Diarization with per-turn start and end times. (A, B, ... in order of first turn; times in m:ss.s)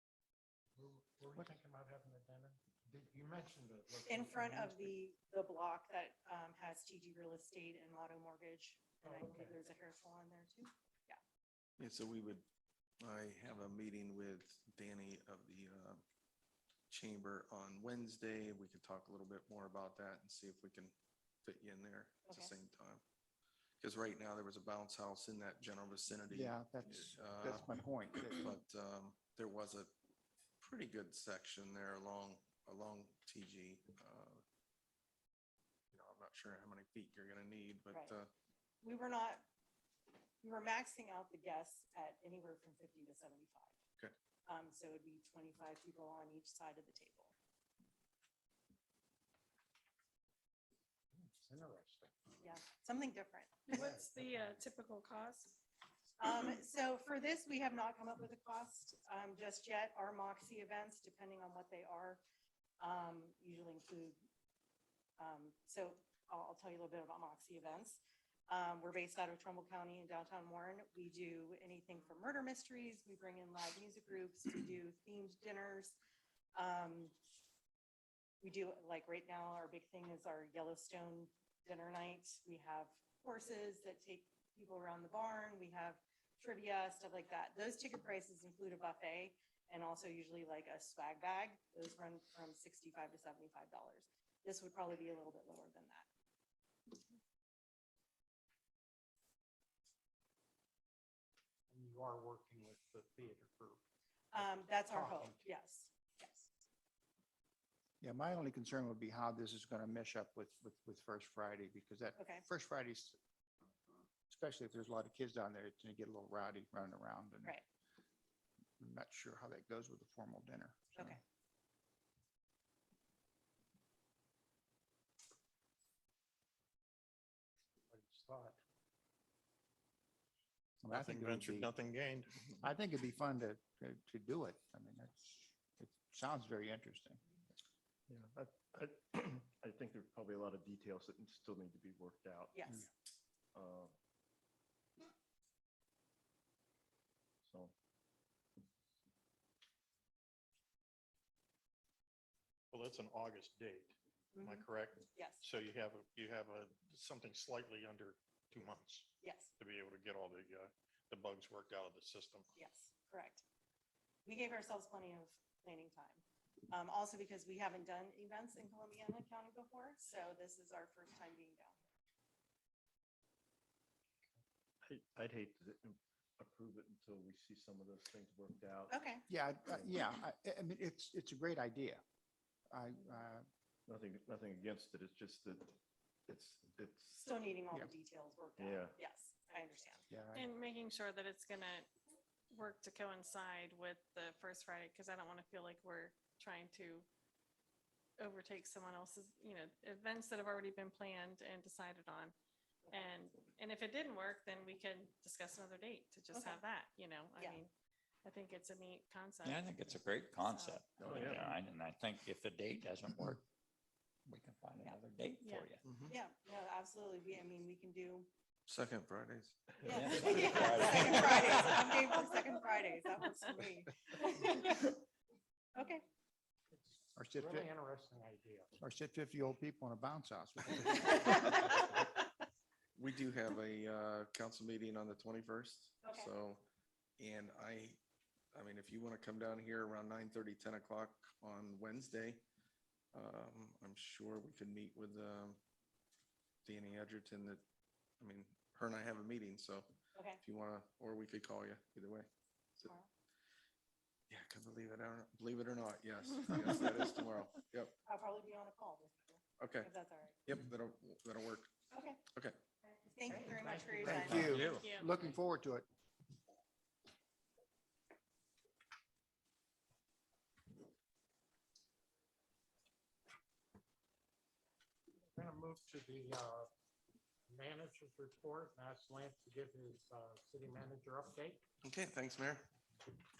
0:00.8-0:04.9 A
0:04.1-0:11.2 B
0:09.0-0:09.6 A
0:11.8-0:12.4 C
0:13.0-0:16.0 C
0:16.9-0:23.0 C
0:22.3-0:22.5 B
0:23.8-0:29.9 C
0:26.3-0:28.6 D
0:30.6-0:34.4 C
0:35.9-0:38.3 C
0:38.8-0:39.4 B
0:40.4-0:43.7 B
0:44.4-0:47.3 B
0:51.1-0:52.1 A
0:52.4-0:53.9 B
0:53.7-0:55.6 E
0:53.7-0:54.6 A
0:56.2-1:02.2 B
1:02.8-1:04.2 B
1:05.2-1:16.0 B
1:16.5-1:17.1 B
1:18.4-1:36.1 B
1:41.7-1:43.8 A
1:44.3-1:46.5 B
1:44.9-1:45.4 A
1:48.0-1:53.2 D
1:52.2-1:52.4 B
1:54.3-1:57.6 D
1:58.8-2:01.2 D
2:07.9-2:08.6 A
2:10.8-2:11.7 D
2:10.9-2:12.5 F
2:12.6-2:17.2 D
2:18.1-2:22.8 G
2:22.5-2:22.9 B
2:23.5-2:23.9 G
2:27.4-2:27.7 G
2:32.7-2:42.5 F
2:34.3-2:35.4 B
2:39.2-2:39.5 B
2:42.5-2:43.4 B
2:44.2-2:51.8 B
2:54.8-2:59.0 G
2:58.9-2:59.2 B
2:59.3-3:02.0 D
3:02.7-3:03.5 D
3:03.9-3:07.3 G
3:07.2-3:10.0 B
3:08.6-3:09.0 G
3:10.1-3:10.5 D
3:10.3-3:11.9 E
3:12.5-3:17.0 E
3:18.2-3:22.3 E
3:22.9-3:27.7 E
3:26.3-3:26.6 B
3:28.2-3:30.0 E
3:29.4-3:33.4 H
3:30.5-3:31.3 E
3:31.0-3:31.5 G
3:34.2-3:35.8 H
3:35.4-3:35.7 E
3:35.8-3:36.1 C
3:36.1-3:38.3 B
3:38.7-3:40.2 C
3:39.8-3:44.9 B
3:39.9-3:41.9 H
3:45.7-3:46.0 B
3:46.7-3:48.7 A
3:47.2-3:47.7 D
3:48.8-3:51.6 D
3:51.1-3:51.8 B
3:53.0-3:56.6 C
3:56.0-3:56.3 B
3:57.2-3:58.0 C
3:58.5-4:02.4 C
4:03.1-4:05.6 C
4:06.6-4:07.6 C
4:08.2-4:12.9 C
4:10.1-4:10.4 B
4:14.3-4:17.9 C
4:18.0-4:20.4 B
4:19.6-4:19.9 C
4:20.4-4:21.7 C
4:21.9-4:22.2 B
4:23.0-4:24.6 B
4:23.4-4:24.8 A
4:24.0-4:25.9 D
4:24.6-4:25.1 E
4:35.3-4:36.7 A
4:37.5-4:41.6 A
4:41.8-4:42.7 C